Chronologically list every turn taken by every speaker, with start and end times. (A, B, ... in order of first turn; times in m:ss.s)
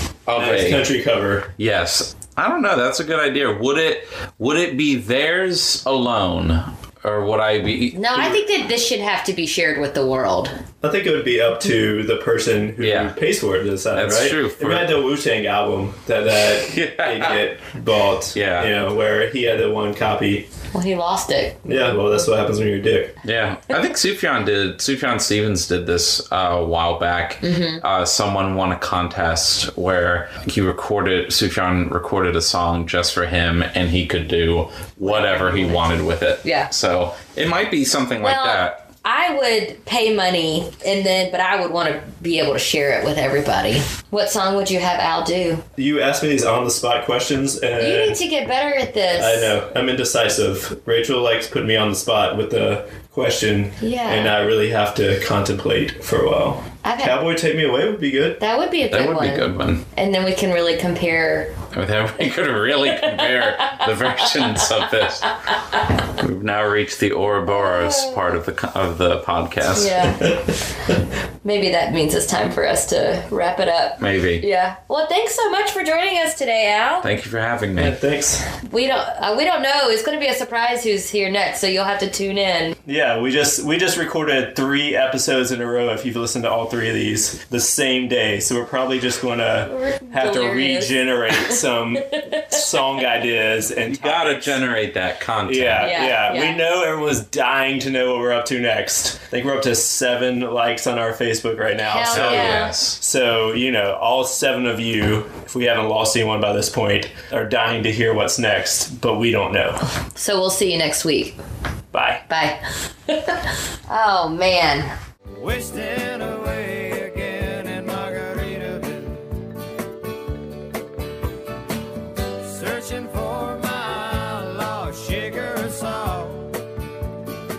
0:00.3-0:00.9 A
0:00.3-0:01.5 B
0:01.6-0:08.4 A
0:07.9-0:10.5 C
0:10.8-0:20.4 B
0:12.8-0:13.1 A
0:13.9-0:14.9 A
0:16.5-0:17.4 A
0:18.3-0:18.7 A
0:20.7-0:21.6 C
0:21.6-0:23.2 B
0:23.2-0:38.8 A
0:27.4-0:27.8 C
0:35.0-0:36.7 C
0:38.2-0:45.6 C
0:45.8-0:48.2 B
0:47.8-0:49.5 C
0:49.1-0:58.4 B
0:53.8-0:54.4 C
0:56.8-0:57.2 C
0:58.4-1:01.5 C
0:58.9-0:59.8 A
1:01.7-1:05.4 A
1:02.9-1:04.6 C
1:06.1-1:10.1 A
1:07.5-1:08.3 C
1:09.7-1:10.4 C
1:11.4-1:17.1 C
1:14.0-1:14.4 A
1:17.0-1:18.0 A
1:17.8-1:18.4 B
1:18.6-1:22.8 C
1:22.8-1:34.6 B
1:29.6-1:31.6 C
1:32.1-1:32.5 C
1:33.9-1:36.0 A
1:35.4-1:49.8 B
1:35.8-1:36.6 C
1:41.8-1:42.7 C
1:42.1-1:43.0 A
1:50.1-1:51.4 C
1:51.9-1:52.2 B
1:52.3-1:54.9 C
1:55.3-1:59.3 D
2:02.4-2:06.6 D